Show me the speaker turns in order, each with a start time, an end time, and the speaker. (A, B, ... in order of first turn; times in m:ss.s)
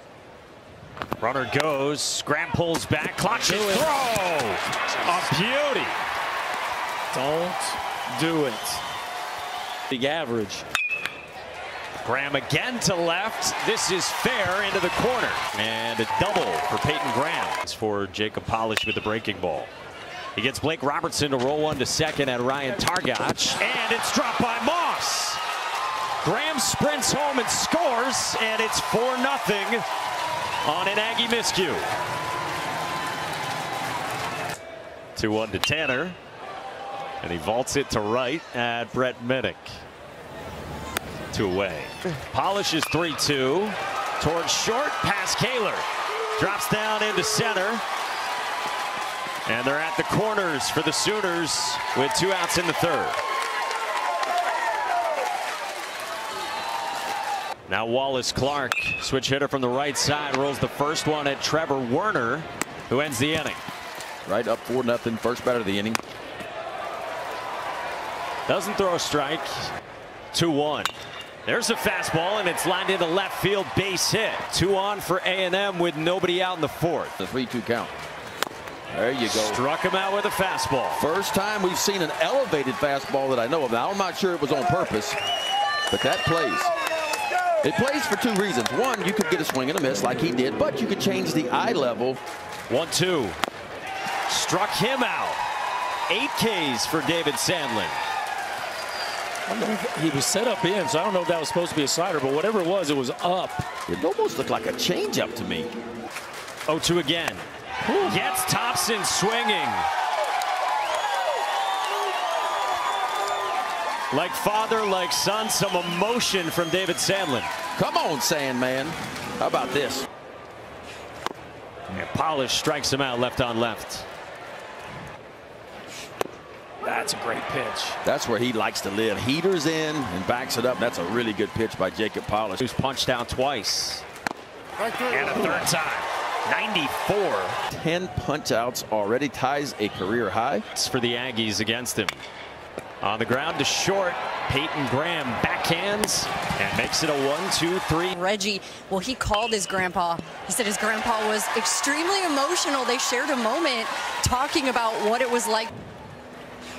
0:01.2-0:06.0 A
0:03.4-0:03.9 B
0:07.1-0:08.8 B
0:09.9-0:10.7 B
0:12.0-0:19.7 A
0:20.3-0:25.4 A
0:26.2-0:29.8 A
0:30.6-0:31.9 A
0:35.2-0:36.2 A
0:37.2-0:39.8 A
0:41.3-0:47.8 A
0:49.5-0:53.2 A
0:57.7-1:03.6 A
1:04.2-1:06.0 C
1:08.5-1:09.7 A
1:10.3-1:10.9 A
1:11.5-1:17.1 A
1:17.2-1:17.9 C
1:18.9-1:19.6 C
1:19.2-1:21.0 A
1:21.0-1:25.2 C
1:25.9-1:26.7 C
1:27.6-1:32.2 C
1:32.7-1:33.4 A
1:34.3-1:35.4 A
1:36.1-1:38.0 A
1:39.5-1:43.7 B
1:43.9-1:45.7 C
1:46.7-1:49.9 A
1:47.9-1:48.2 B
1:54.1-1:57.5 A
1:57.8-2:00.1 C
2:01.9-2:04.1 A
2:06.8-2:08.0 B
2:08.0-2:12.6 C
2:12.6-2:14.0 A
2:15.0-2:17.6 A
2:17.7-2:20.6 C
2:20.7-2:22.2 A
2:23.0-2:28.2 A
2:28.2-2:35.7 D